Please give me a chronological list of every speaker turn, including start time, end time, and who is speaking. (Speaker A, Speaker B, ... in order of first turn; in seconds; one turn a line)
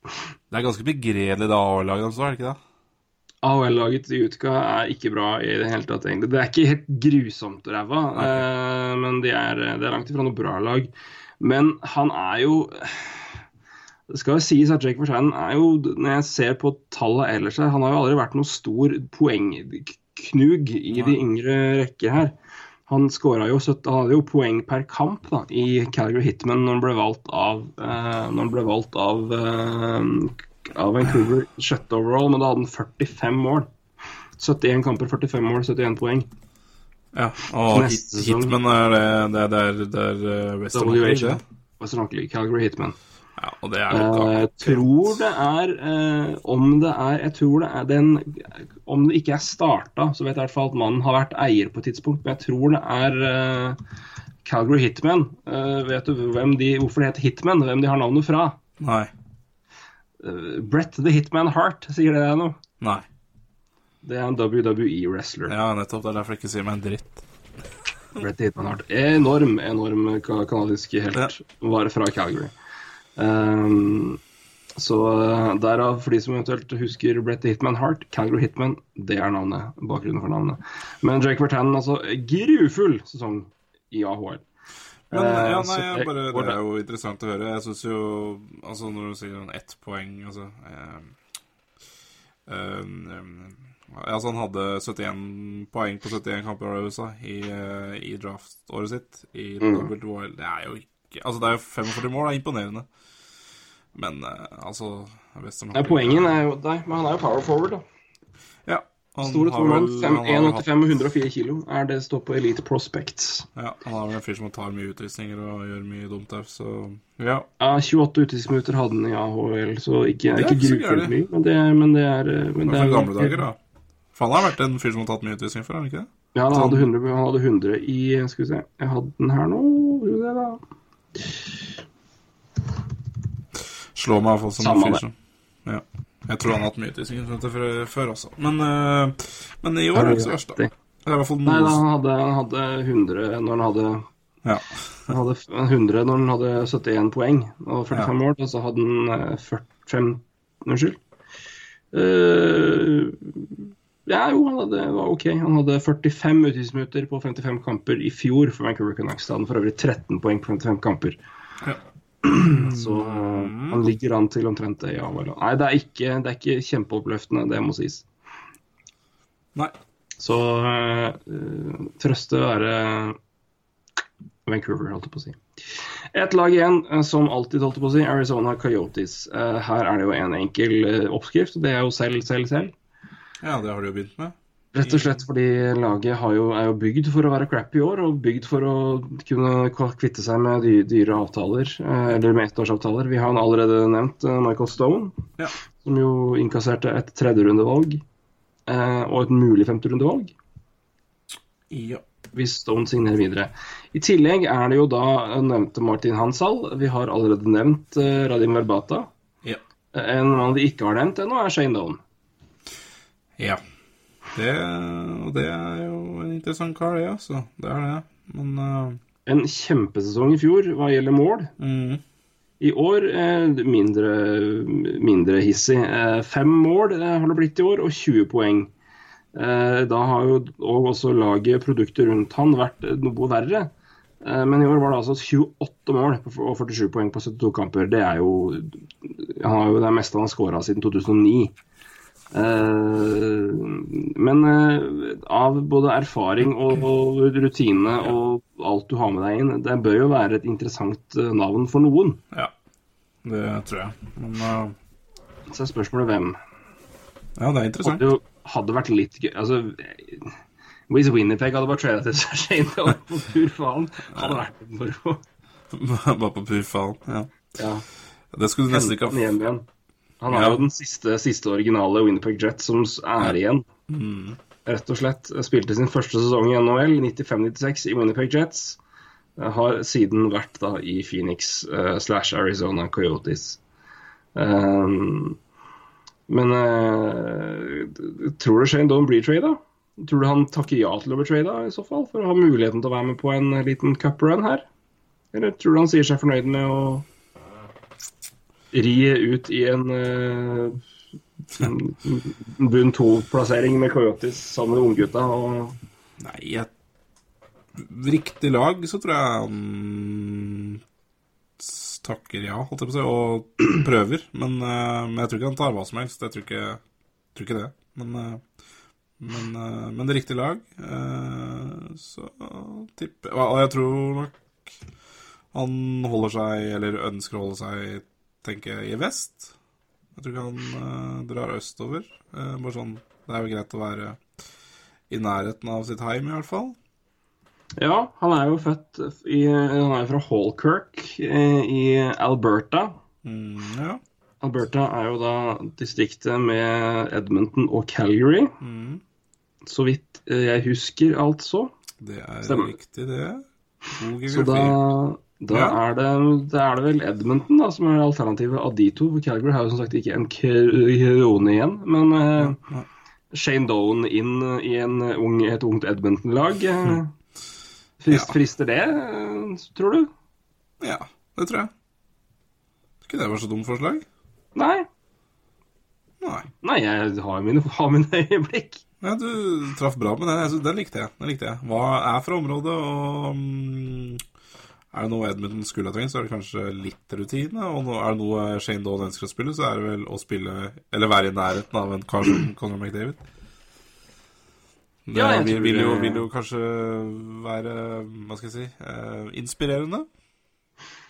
Speaker A: 0.5-2.6
Speaker B: 3.4-13.4
Speaker A: 8.2-8.4
Speaker B: 14.1-22.4
Speaker A: 20.9-21.2
Speaker B: 22.9-33.7
Speaker B: 34.4-36.3
Speaker A: 37.1-41.4
Speaker B: 37.7-38.5
Speaker B: 40.7-43.0
Speaker A: 43.4-45.2
Speaker B: 43.9-53.8
Speaker B: 54.5-58.6
Speaker A: 58.8-59.1
Speaker B: 60.2-62.6
Speaker A: 62.8-63.1
Speaker B: 64.0-65.5
Speaker A: 65.5-67.2
Speaker B: 68.2-72.5
Speaker B: 73.2-74.2
Speaker B: 74.8-84.4
Speaker B: 85.1-86.6
Speaker A: 85.1-91.2
Speaker A: 92.5-102.9
Speaker B: 99.6-99.9
Speaker A: 104.0-106.3
Speaker B: 105.8-107.8
Speaker A: 108.7-110.7
Speaker B: 109.2-113.5
Speaker A: 113.6-117.5
Speaker B: 117.6-123.4
Speaker A: 120.3-121.1
Speaker A: 122.7-123.6
Speaker A: 124.1-126.9
Speaker B: 126.3-130.6
Speaker A: 133.9-135.1
Speaker B: 134.6-135.0
Speaker A: 135.7-141.8
Speaker B: 139.9-140.7
Speaker B: 141.4-144.1
Speaker A: 144.4-145.1
Speaker B: 145.1-151.0
Speaker B: 151.9-161.2
Speaker B: 162.2-168.1
Speaker A: 162.4-163.8
Speaker B: 170.2-173.2
Speaker B: 174.5-175.4
Speaker B: 176.1-182.7
Speaker A: 183.4-185.2
Speaker B: 184.7-195.3
Speaker B: 195.8-198.0
Speaker B: 198.7-200.3
Speaker A: 201.7-202.0
Speaker B: 202.3-209.1
Speaker B: 209.9-212.0
Speaker A: 214.3-219.0
Speaker B: 219.3-221.5
Speaker A: 221.6-222.0
Speaker B: 222.6-228.7
Speaker B: 229.3-233.7
Speaker B: 234.2-241.6
Speaker B: 242.3-252.2
Speaker A: 253.2-254.8
Speaker B: 255.5-256.4
Speaker A: 257.4-258.1
Speaker B: 257.8-260.4
Speaker B: 260.9-265.2
Speaker A: 264.1-264.4
Speaker A: 265.7-267.3
Speaker B: 267.6-267.9
Speaker A: 268.3-269.2
Speaker B: 268.7-269.7
Speaker B: 270.2-273.7
Speaker A: 270.3-270.6
Speaker A: 273.9-274.4
Speaker B: 274.6-278.8
Speaker B: 279.4-283.6
Speaker B: 284.4-285.4
Speaker B: 286.3-294.7
Speaker B: 295.3-297.1
Speaker B: 298.7-300.8
Speaker B: 301.5-305.8
Speaker A: 306.2-306.7
Speaker A: 307.8-310.8
Speaker A: 311.6-316.8
Speaker A: 317.4-318.4
Speaker A: 319.2-324.8
Speaker A: 325.5-329.5
Speaker A: 330.1-334.2
Speaker A: 335.1-336.8
Speaker B: 337.8-343.0
Speaker A: 343.2-344.0
Speaker B: 344.4-348.6
Speaker A: 348.6-349.0
Speaker B: 349.7-351.7
Speaker A: 352.0-354.8
Speaker B: 352.4-352.8
Speaker B: 354.3-362.6
Speaker A: 355.5-355.8
Speaker A: 362.4-362.9
Speaker B: 363.3-367.1
Speaker B: 368.0-370.1
Speaker A: 368.1-368.4
Speaker A: 370.8-371.7
Speaker A: 373.0-374.1
Speaker B: 374.6-374.9
Speaker A: 376.2-376.5
Speaker B: 376.6-378.8
Speaker A: 379.0-384.2
Speaker A: 384.9-393.2
Speaker A: 395.1-400.1
Speaker B: 395.1-396.2